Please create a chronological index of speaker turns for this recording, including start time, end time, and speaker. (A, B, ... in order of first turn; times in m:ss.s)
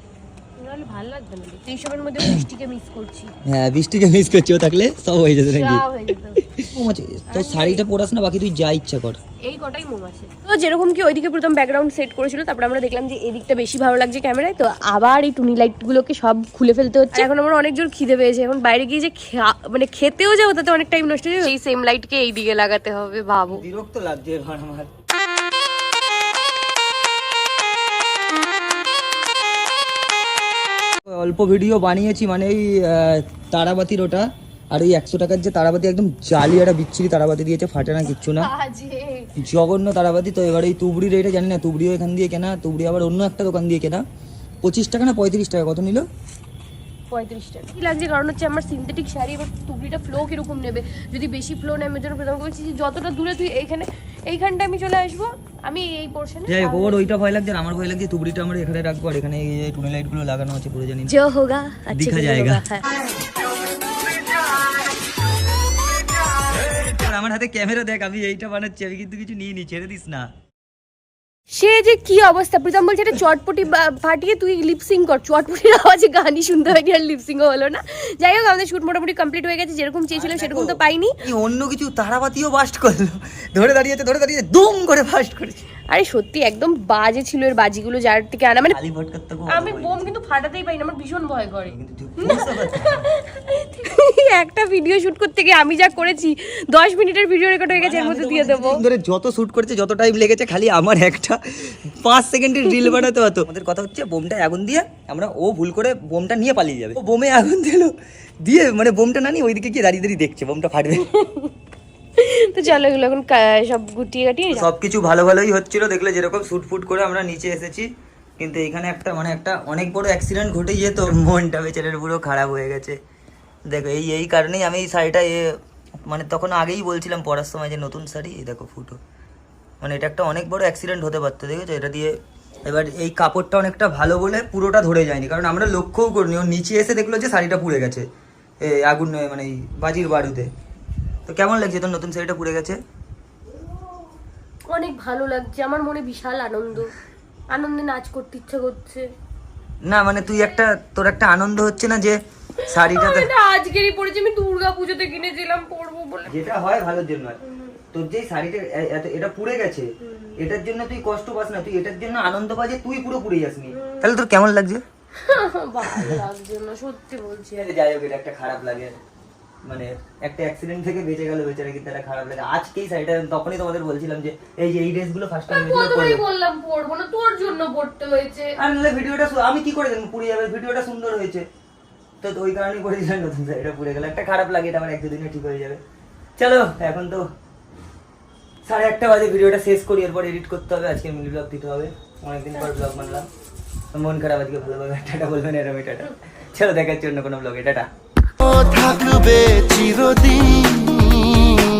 0:00.6-0:03.3 A
0:03.4-0:05.8 B
0:05.4-0:06.6 A
0:06.4-0:09.2 B
0:07.3-0:07.8 A
0:09.4-0:23.6 A
0:23.5-0:24.9 B
0:31.1-0:38.5 B
0:38.0-0:39.3 A
0:39.4-0:44.0 B
0:44.6-0:46.1 B
0:47.1-0:57.1 A
0:56.5-1:01.1 B
1:01.1-1:02.8 A
1:01.9-1:02.6 B
1:06.4-1:10.3 B
1:11.5-1:21.1 A
1:20.1-1:25.6 B
1:25.9-1:28.8 A
1:28.7-1:30.0 B
1:29.5-1:38.8 A
1:31.7-1:33.1 B
1:37.7-1:47.9 B
1:48.4-1:51.1 B
1:51.0-1:51.5 A
1:52.2-1:54.7 A
1:54.5-2:03.0 B
2:03.7-2:09.0 B
2:09.8-2:18.0 B
2:18.6-2:20.5 B
2:21.2-2:22.8 B
2:24.7-2:26.9 A
2:27.5-2:29.1 A
2:29.8-2:33.3 B
2:32.6-2:36.3 A
2:36.3-2:37.4 B
2:37.4-2:37.7 A
2:37.9-2:44.8 B
2:40.0-2:40.3 A
2:43.7-2:44.1 A
2:45.2-2:47.7 A
2:45.8-2:46.2 B
2:47.6-2:49.0 B
2:49.6-2:56.2 B
2:55.5-2:58.6 A
2:58.6-3:01.5 B
3:02.2-3:05.8 B
3:06.4-3:07.3 B
3:08.6-3:13.3 B
3:12.5-3:13.2 A
3:13.9-3:17.9 B
3:18.5-3:21.2 C